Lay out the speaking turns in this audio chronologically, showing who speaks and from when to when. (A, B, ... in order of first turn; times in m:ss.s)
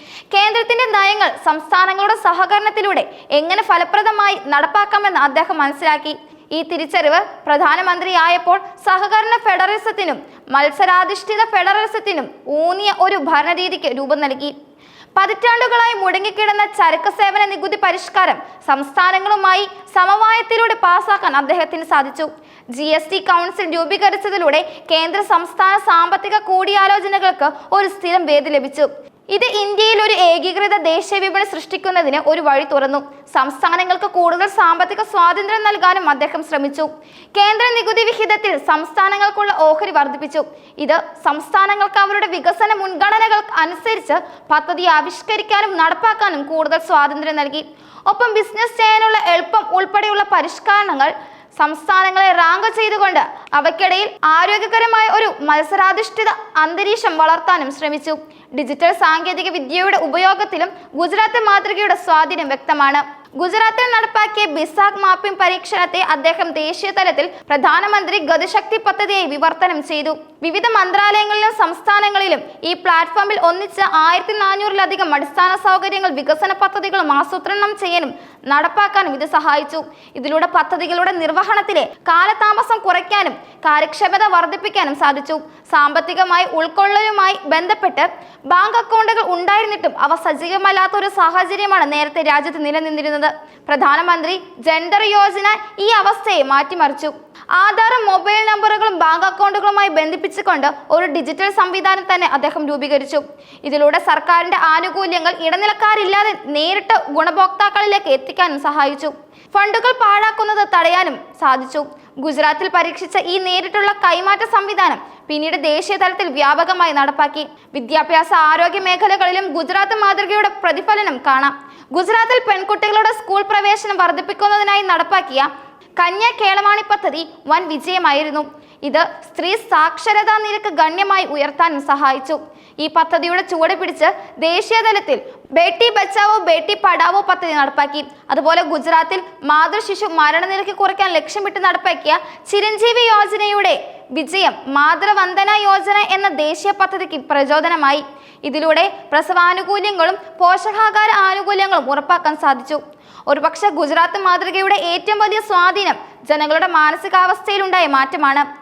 0:00.3-0:14.5 A
0:15.2-2:38.4 A